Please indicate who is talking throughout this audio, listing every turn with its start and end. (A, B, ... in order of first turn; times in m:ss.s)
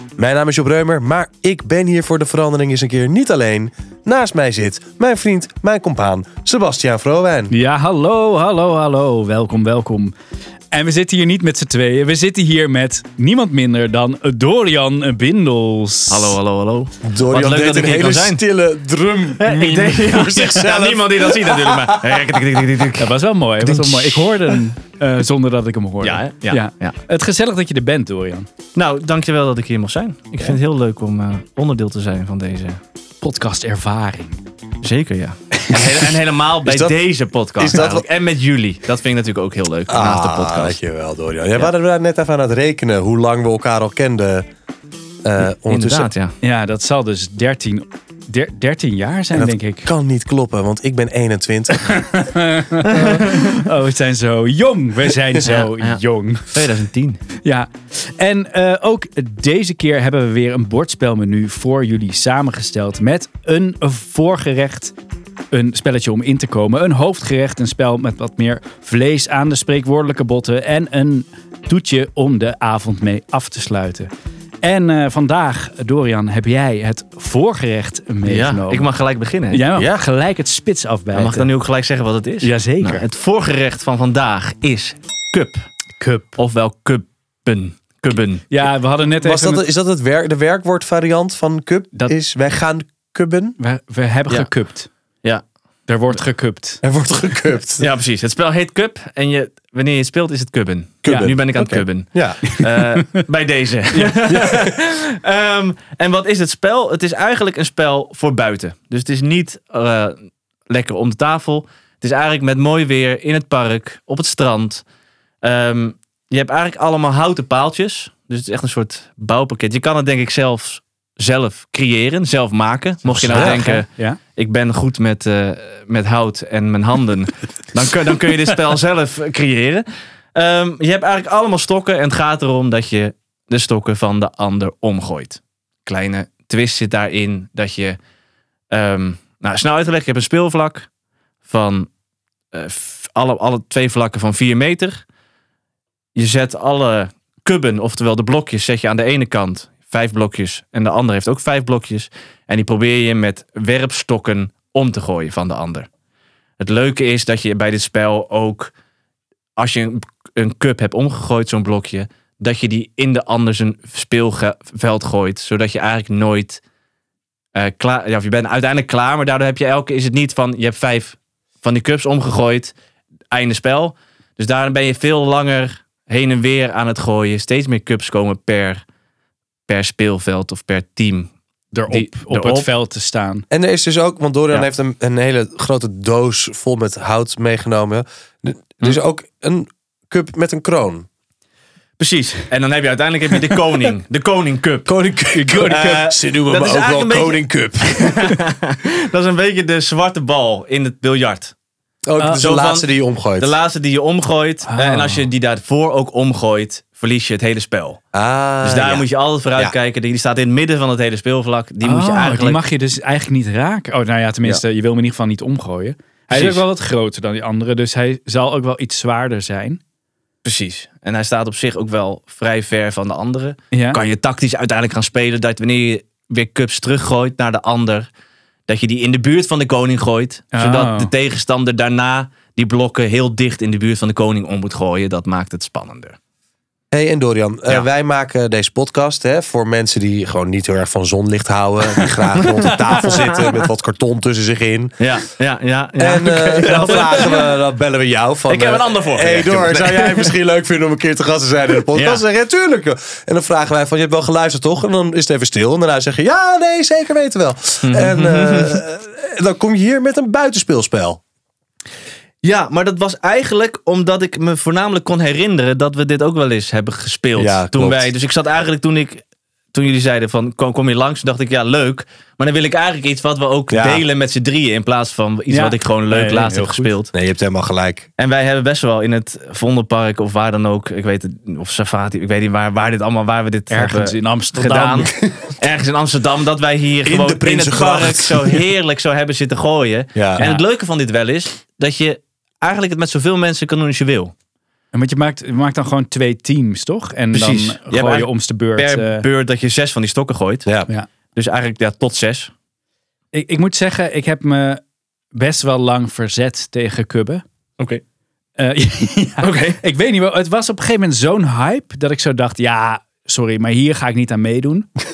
0:00.2-0:07.5 A
0:07.5-0:10.1 B
0:10.7-0:16.4 B
0:16.1-0:18.4 C
0:17.0-0:22.4 A
0:19.4-0:23.1 C
0:23.0-0:28.5 B
0:23.7-0:24.5 C
0:26.0-0:27.0 C
0:28.8-0:32.8 C
0:33.2-0:34.4 B
0:34.8-0:40.8 C
0:35.6-0:36.1 B
0:36.6-0:37.0 A
0:37.6-0:38.0 A
0:39.9-0:44.4 A
0:45.2-0:46.1 A
0:45.7-0:46.3 C
0:46.4-0:49.9 B
0:49.3-0:52.0 A
0:51.8-0:56.7 B
0:52.9-0:53.4 C
0:55.5-0:57.2 C
0:57.4-1:05.0 B
1:05.5-1:14.1 B
1:14.6-1:18.9 B
1:18.2-1:19.6 C
1:19.5-1:21.5 B
1:19.8-1:20.0 A
1:21.1-1:25.7 C
1:22.4-1:23.1 B
1:26.0-1:26.3 B
1:26.4-1:28.4 C
1:28.5-1:29.6 B
1:29.2-1:33.6 A
1:33.6-1:34.9 B
1:35.9-1:36.8 B
1:36.8-1:37.9 A
1:37.8-1:54.8 C
1:41.0-1:42.4 A
1:42.5-1:43.2 B
1:44.3-1:44.8 A
1:55.4-2:18.0 C
2:03.0-2:04.2 B
2:03.3-2:03.6 A
2:18.7-2:20.9 C
2:21.4-2:21.9 C
2:22.5-2:25.0 C
2:26.1-2:35.9 C
2:36.6-2:38.7 C
2:39.6-2:46.6 C
2:47.6-2:52.7 C
2:53.3-2:58.8 C
2:59.7-3:01.3 C
3:01.7-3:03.4 B
3:01.9-3:02.7 C
3:03.5-3:11.1 A
3:12.0-3:14.9 C
3:14.9-3:18.4 A
3:15.3-3:16.1 B
3:15.7-3:21.5 C
3:22.1-3:23.5 A
3:22.2-3:22.4 B
3:22.4-3:28.0 C
3:24.7-3:25.3 B
3:28.1-3:29.8 A
3:28.6-3:32.6 C
3:31.8-3:39.8 B
3:36.3-3:36.6 C
3:40.4-3:48.1 C
3:43.7-3:44.0 B
3:48.7-3:56.2 C
3:50.5-3:51.1 B
3:56.9-4:05.1 A
4:02.4-4:03.5 C
4:05.0-4:07.5 C
4:06.0-4:21.2 A
4:08.5-4:10.3 C
4:11.9-4:12.2 C
4:17.8-4:18.8 C
4:22.4-4:37.1 C
4:27.4-4:28.1 A
4:33.7-4:34.0 A
4:35.5-4:36.9 B
4:37.1-4:38.1 A
4:38.2-4:54.3 C
4:43.7-4:45.1 B
4:47.0-4:48.6 A
4:50.2-4:50.5 A
4:54.9-4:59.2 B
4:57.3-5:00.8 C
5:01.3-5:02.5 C
5:03.3-5:04.8 B
5:05.3-5:07.4 B
5:08.6-5:14.9 B
5:09.4-5:09.8 C